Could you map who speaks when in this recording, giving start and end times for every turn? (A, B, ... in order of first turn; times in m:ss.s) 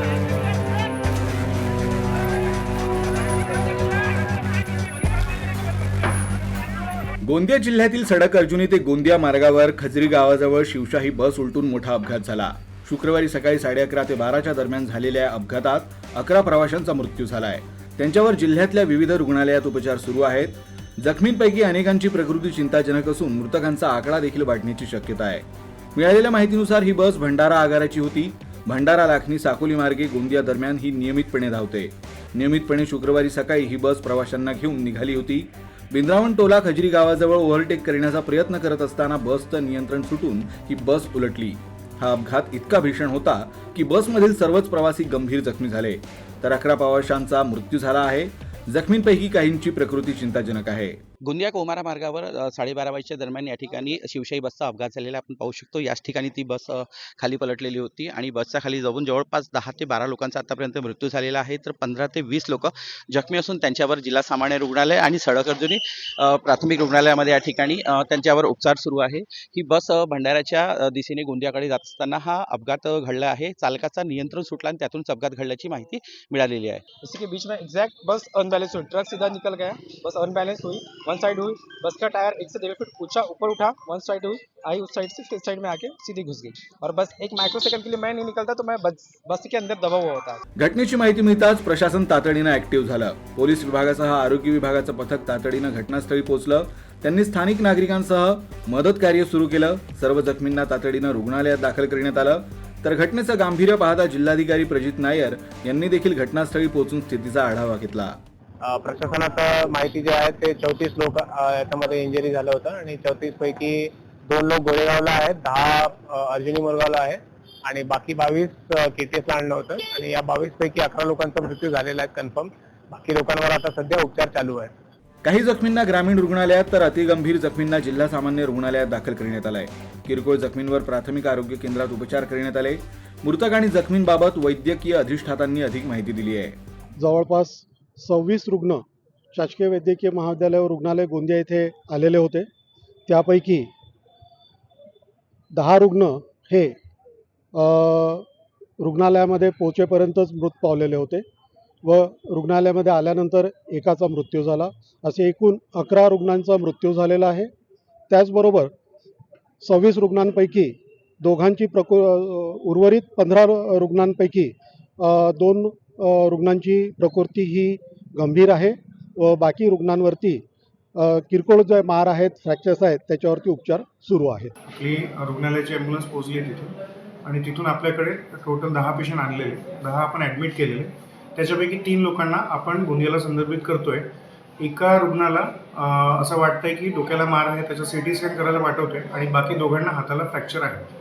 0:07.2-0:51.0 A
0:51.2-1:16.8 B
1:17.0-1:30.4 C
1:30.6-1:48.2 A
1:48.6-2:04.7 D
2:05.2-2:16.6 A
2:17.0-2:22.5 E
2:23.1-2:23.7 E
2:25.5-2:26.8 E
2:27.5-2:28.3 E
2:28.8-2:31.2 E
2:31.8-2:37.5 E
2:38.1-2:38.7 E
2:39.6-2:50.4 E
2:51.0-2:54.5 E
2:54.7-3:04.1 F
3:04.6-3:10.9 F